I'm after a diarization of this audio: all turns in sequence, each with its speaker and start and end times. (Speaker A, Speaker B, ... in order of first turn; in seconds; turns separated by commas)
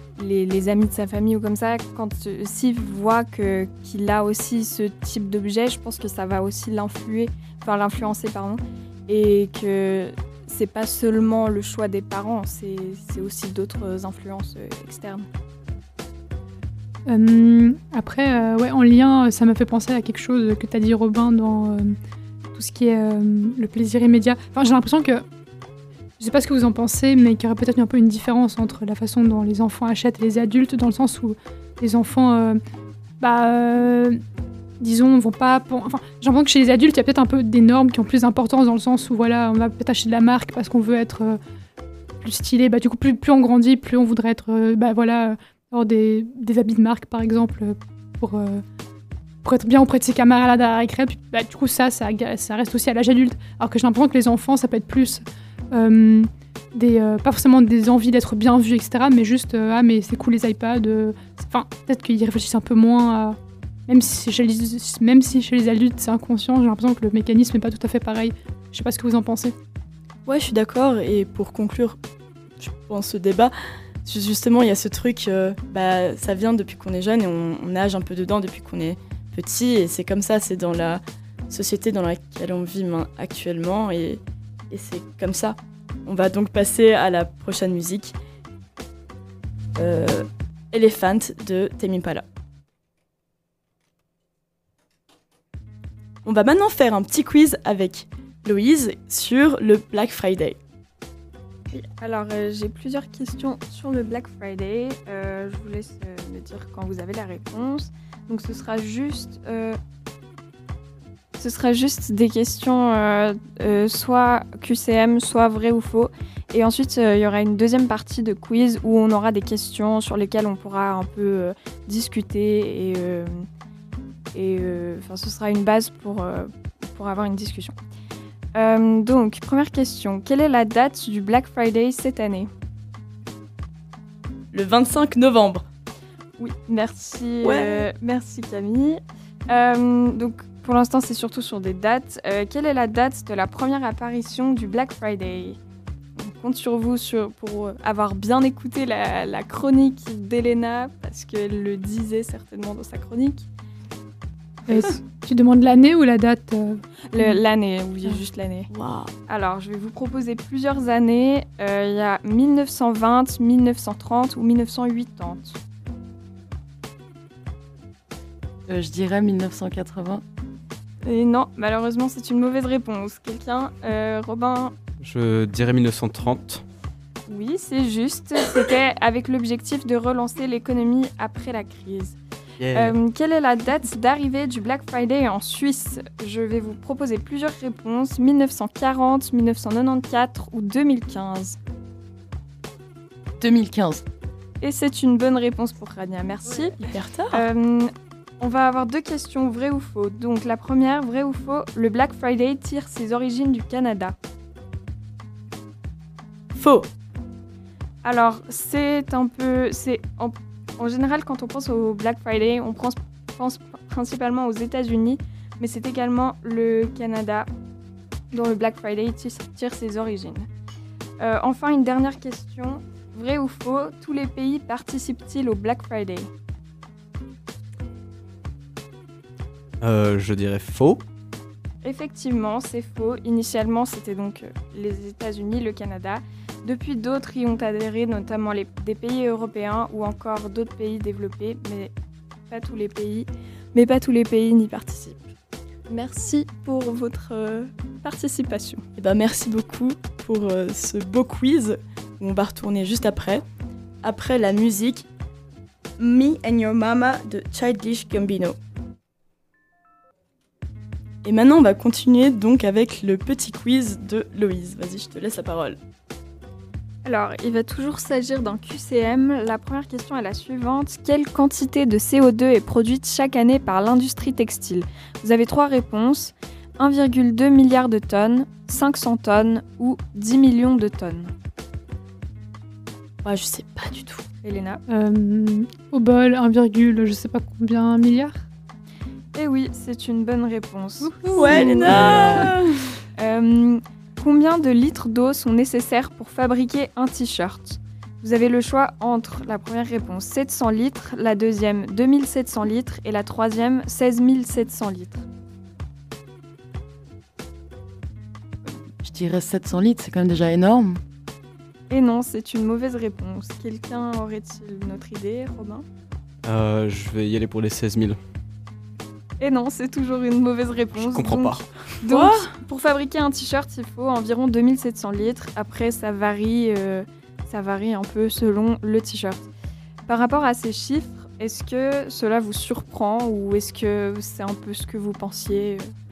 Speaker A: 0.2-15.3, Speaker B: 17.1-21.9, Speaker B: 22.5-25.2, Speaker B: 26.2-32.6, Speaker B: 33.2-34.2, Speaker B: 34.8-41.4, Speaker B: 42.2-48.6, Speaker B: 49.4-69.5, Speaker C: 70.2-72.0, Speaker C: 72.6-73.5, Speaker C: 74.0-88.1, Speaker C: 89.8-92.2, Speaker C: 96.2-100.6, Speaker A: 101.7-109.8, Speaker A: 111.4-123.5, Speaker A: 124.3-127.8, Speaker A: 128.5-132.5, Speaker C: 134.5-135.7, Speaker A: 136.4-145.6, Speaker C: 137.4-137.9, Speaker A: 146.2-153.5, Speaker B: 154.7-157.4, Speaker A: 157.1-158.7, Speaker C: 158.7-159.1, Speaker A: 159.3-165.6, Speaker D: 168.7-170.2, Speaker A: 171.0-174.7, Speaker E: 175.0-176.6, Speaker A: 177.3-182.2, Speaker E: 182.6-182.9, Speaker A: 182.7-191.6, Speaker D: 193.4-194.0, Speaker A: 194.6-196.8, Speaker C: 196.6-197.4, Speaker A: 197.3-204.2, Speaker C: 206.5-206.9, Speaker A: 208.0-217.5, Speaker A: 218.3-220.5, Speaker A: 221.2-226.3, Speaker E: 229.8-231.0, Speaker A: 231.8-241.9, Speaker A: 242.5-245.2, Speaker A: 245.9-248.8, Speaker C: 249.0-253.4, Speaker C: 254.0-255.1, Speaker C: 256.0-258.6, Speaker C: 261.2-265.8, Speaker A: 267.0-281.3, Speaker C: 283.2-284.2, Speaker A: 284.4-284.8, Speaker B: 284.9-288.4, Speaker A: 289.3-292.3, Speaker B: 291.0-291.9, Speaker C: 291.4-292.8, Speaker D: 291.7-292.5, Speaker A: 293.2-305.2, Speaker D: 309.0-311.0, Speaker A: 311.9-315.9, Speaker E: 316.4-318.2, Speaker A: 319.4-329.5, Speaker E: 320.9-321.6, Speaker C: 322.1-322.5, Speaker A: 330.1-335.9